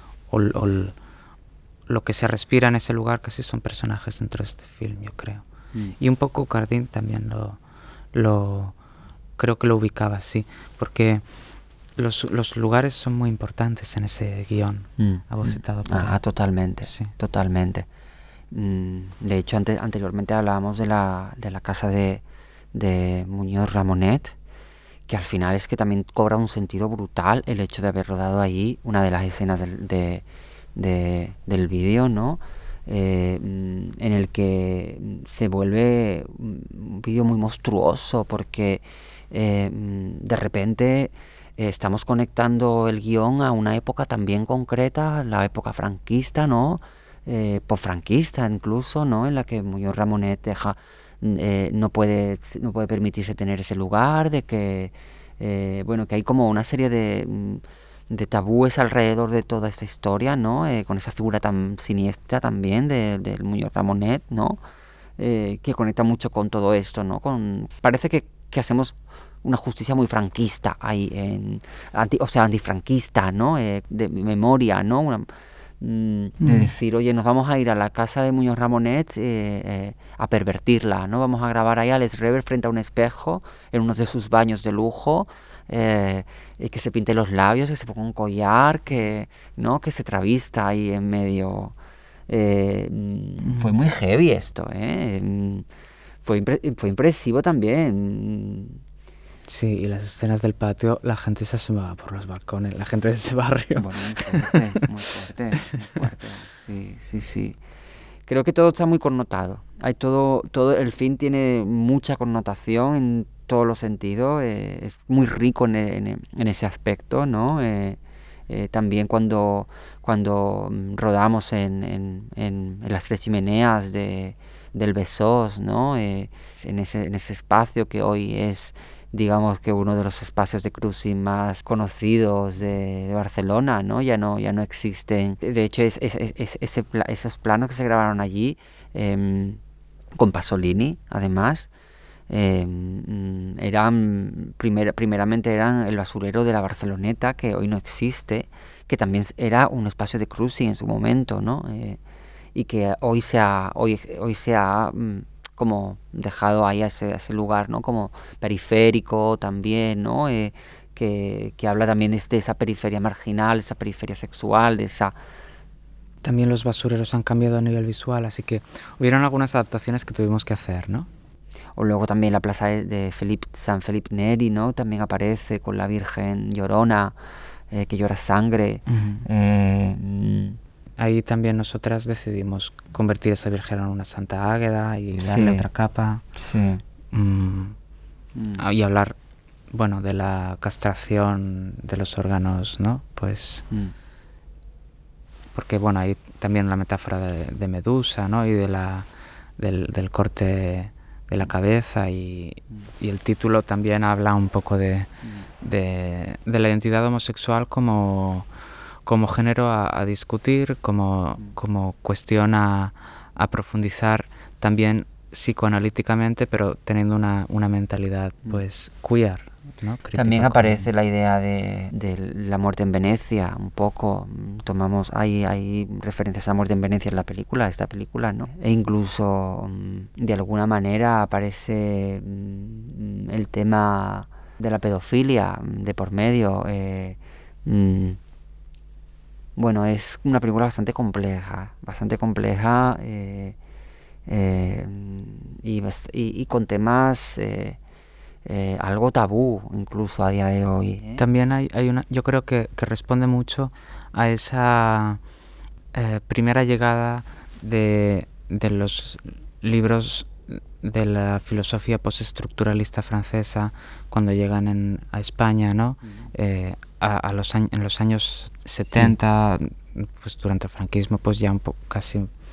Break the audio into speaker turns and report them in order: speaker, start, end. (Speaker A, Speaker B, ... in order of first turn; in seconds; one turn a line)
Speaker A: 0.3-0.9
Speaker A: 1.9-5.4
Speaker A: 6.0-7.6
Speaker A: 8.1-8.8
Speaker A: 9.4-11.2
Speaker A: 12.0-16.2
Speaker B: 15.0-17.9
Speaker B: 18.5-24.4
Speaker B: 25.1-30.2
Speaker B: 30.8-64.6
Speaker B: 65.2-75.3
Speaker B: 75.8-91.7
Speaker B: 92.3-95.7
Speaker B: 96.2-98.8
Speaker A: 99.5-104.8
Speaker B: 103.8-107.6
Speaker B: 108.3-139.6
Speaker B: 140.2-141.7
Speaker B: 142.3-152.0
Speaker B: 152.6-165.1
Speaker A: 166.2-171.1
Speaker B: 171.8-177.2
Speaker B: 177.7-180.6
Speaker A: 181.0-186.2
Speaker B: 185.2-185.7
Speaker B: 186.4-186.8
Speaker A: 187.1-187.8
Speaker B: 188.3-188.6
Speaker A: 188.6-189.2
Speaker A: 189.7-193.7
Speaker A: 195.5-199.1
Speaker A: 199.6-208.5
Speaker A: 209.1-220.9
Speaker B: 220.2-238.2
Speaker B: 239.6-243.6
Speaker B: 244.3-247.8
Speaker B: 248.4-251.2
Speaker A: 251.2-255.2
Speaker A: 255.9-272.3